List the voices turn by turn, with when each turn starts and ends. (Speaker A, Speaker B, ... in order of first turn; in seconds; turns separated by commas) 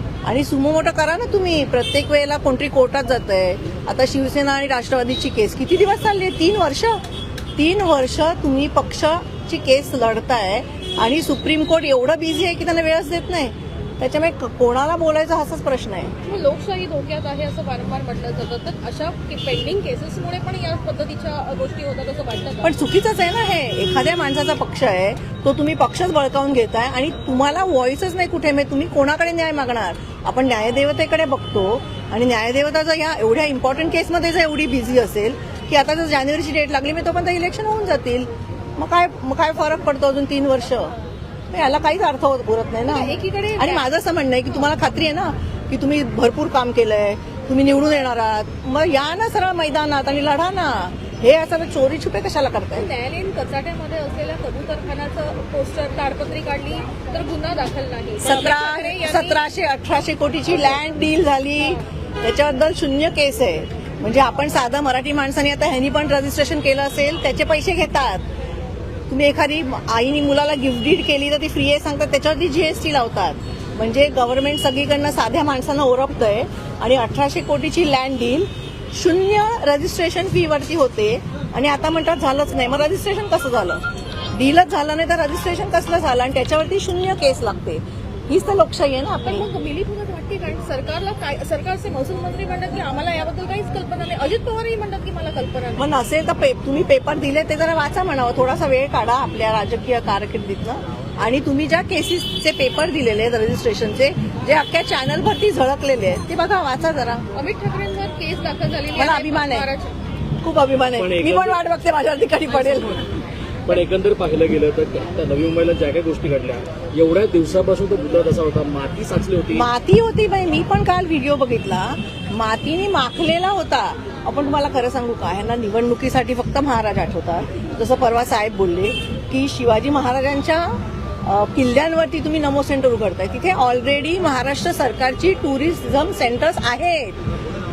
Speaker A: 0.2-7.0, Speaker A: 7.5-16.1, Speaker B: 16.2-22.7, Speaker A: 22.6-40.9, Speaker A: 41.5-52.9, Speaker B: 42.9-43.8, Speaker B: 52.7-59.4, Speaker A: 58.2-68.2, Speaker A: 69.1-89.5, Speaker B: 89.2-95.9, Speaker A: 95.8-107.2, Speaker B: 107.3-109.9, Speaker A: 108.9-109.7, Speaker A: 110.4-113.0, Speaker C: 111.0-111.6, Speaker C: 113.7-119.7, Speaker A: 119.5-137.2